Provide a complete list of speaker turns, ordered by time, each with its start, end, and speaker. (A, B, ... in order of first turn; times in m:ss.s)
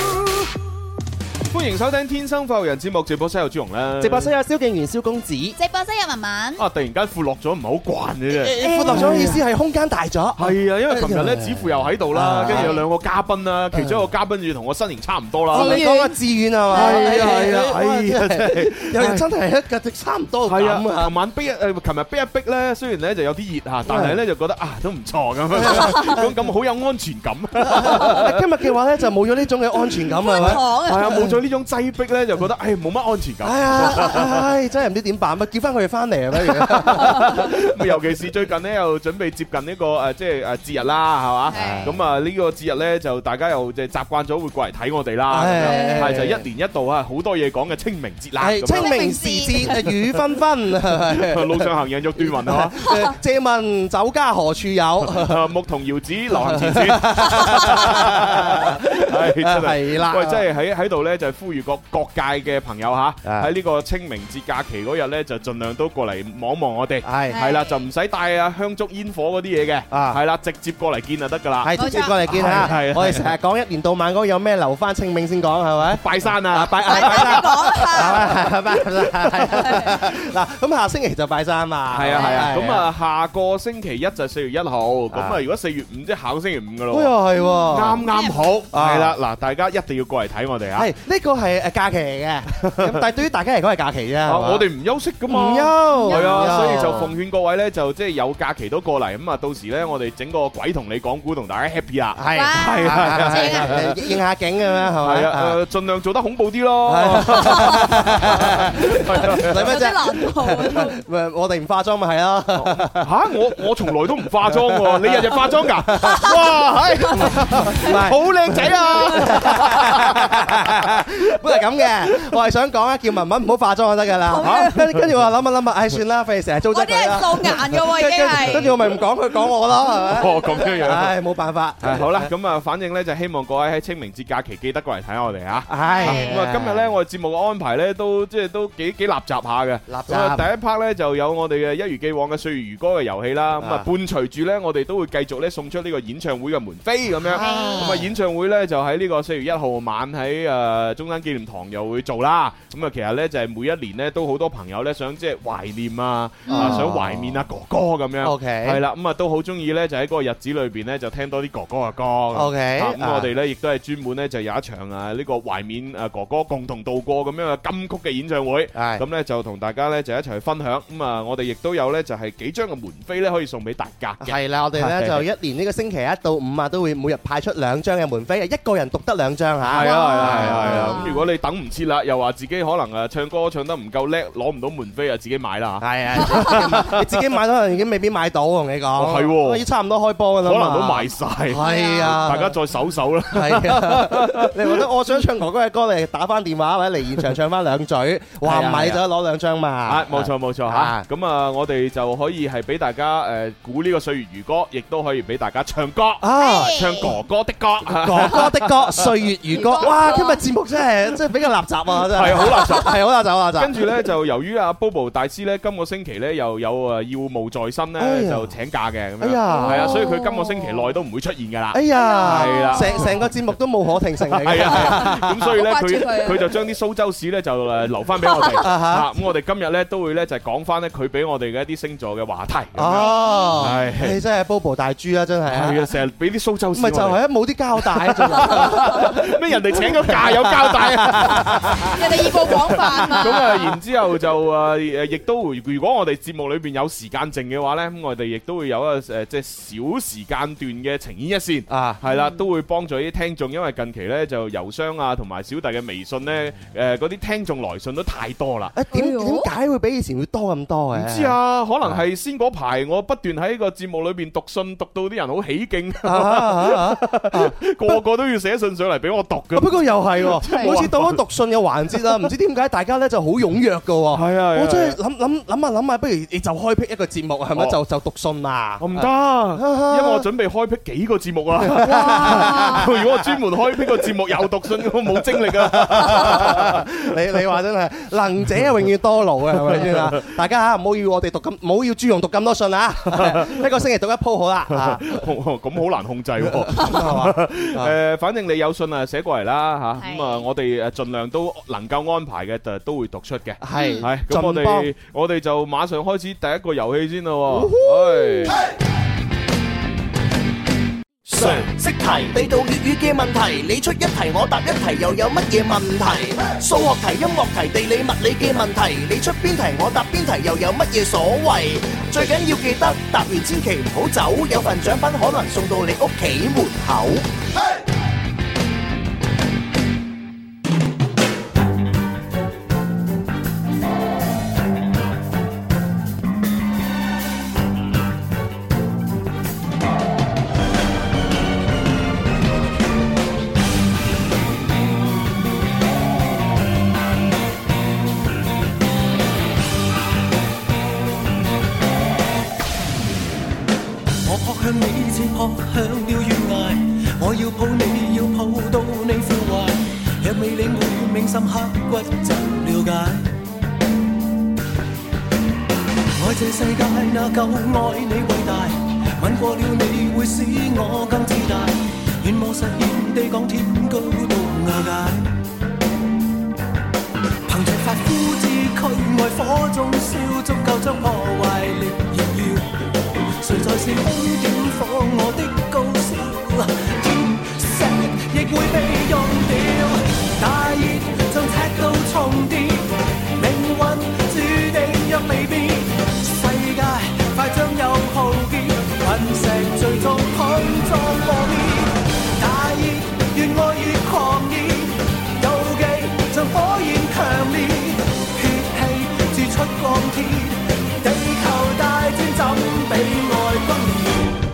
0:01.5-0:04.3 A
0:04.0-0:05.6 B
0:05.6-0:06.6 C
0:06.6-0:09.4 A
0:08.4-0:12.8 B
0:08.5-0:09.4 C
0:10.4-0:15.8 A
0:12.5-0:12.8 C
0:13.7-0:14.1 B
0:15.5-0:17.7 C
0:15.5-0:21.1 B
0:16.7-0:19.3 A
0:20.5-0:28.4 A
0:23.8-0:24.2 B
0:25.5-0:26.3 B
0:25.7-0:26.2 C
0:27.7-0:31.3 B
0:30.1-0:31.2 C
0:30.4-0:34.4 A
0:33.4-0:37.5 B
0:36.7-0:49.8 A
0:41.5-0:41.9 C
0:41.5-0:42.0 B
0:45.3-0:46.4 B
0:45.6-0:46.3 C
0:48.4-0:55.4 B
0:48.7-0:49.9 C
0:51.2-0:53.0 A
0:55.0-1:11.8 A
0:56.3-1:00.5 B
1:03.2-1:03.5 B
1:07.0-1:07.4 B
1:07.3-1:07.8 C
1:09.9-1:10.2 B
1:11.6-1:22.9 B
1:11.7-1:12.7 C
1:12.3-1:13.3 A
1:15.9-1:18.5 A
1:16.8-1:18.5 C
1:19.4-1:20.0 C
1:21.9-1:27.2 A
1:22.1-1:22.5 C
1:25.1-1:25.4 B
1:26.9-1:28.1 B
1:27.4-1:28.4 C
1:27.7-1:30.9 A
1:28.7-1:29.2 B
1:30.8-1:34.7 B
1:32.7-1:33.0 A
1:34.3-1:43.9 A
1:35.3-1:37.1 B
1:35.9-1:37.1 C
1:42.2-1:45.6 B
1:42.3-1:43.8 C
1:45.0-1:49.7 A
1:46.9-1:53.1 B
1:49.6-1:50.9 C
1:52.6-2:01.0 A
1:54.5-1:56.4 B
1:57.1-1:58.0 C
1:57.1-2:12.3 B
1:59.0-1:59.4 C
2:04.3-2:04.8 C
2:04.4-2:05.0 A
2:06.7-2:08.7 C
2:10.1-2:11.2 A
2:11.8-2:55.3 A
2:15.7-2:16.9 B
2:15.8-2:16.4 C
2:19.9-2:20.5 B
2:23.6-2:23.9 B
2:27.2-2:28.1 B
2:27.4-2:27.9 C
2:36.5-2:36.9 C
2:36.5-2:37.4 B
2:38.2-2:38.8 B
2:42.3-2:43.3 B
2:48.7-2:49.0 B
2:54.2-3:01.1 B
2:59.7-3:07.1 A
2:59.7-3:01.3 C
3:05.8-3:12.6 B
3:09.0-3:09.6 A
3:10.4-3:14.8 A
3:11.6-3:12.2 C
3:13.3-3:21.1 B
3:18.4-3:19.0 A
3:19.9-3:29.2 A
3:26.2-3:27.2 B
3:26.4-3:27.1 C
3:27.9-3:33.8 B
3:29.5-3:30.4 C
3:32.1-3:33.0 A
3:33.6-3:43.3 A
3:38.0-3:38.5 B
3:39.2-3:40.1 B
3:39.6-3:40.9 C
3:41.7-3:45.4 B
3:41.9-3:43.1 C
3:44.3-3:54.2 A
3:44.6-3:46.5 C
3:48.6-3:49.1 B
3:52.8-3:55.9 B
3:52.9-3:53.8 C
3:55.5-3:57.2 A
3:56.7-4:03.4 B
3:57.8-4:18.7 A
4:01.9-4:03.7 C
4:11.7-4:12.0 B
4:12.1-4:12.4 C
4:18.7-4:22.0 B
4:18.9-4:19.5 C
4:20.9-4:31.2 A
4:26.0-4:28.0 B
4:29.5-4:39.0 B
4:30.5-4:30.8 C
4:34.1-4:35.0 A
4:38.8-4:46.9 A
4:39.6-4:40.3 B
4:41.6-4:43.1 B
4:41.8-4:43.0 C
4:45.2-4:55.2 B
4:49.6-4:50.2 A
4:53.1-4:53.6 A
4:54.7-5:08.6 A
4:56.4-4:57.9 B
5:00.0-5:00.4 C
5:03.6-5:04.9 B
5:03.7-5:04.0 C
5:07.5-5:08.6 B
5:11.3-5:27.2 D
5:11.4-5:11.7 A
5:54.2-6:03.3 E
6:06.1-6:15.4 E
6:17.5-6:22.7 E
6:23.4-6:54.3 E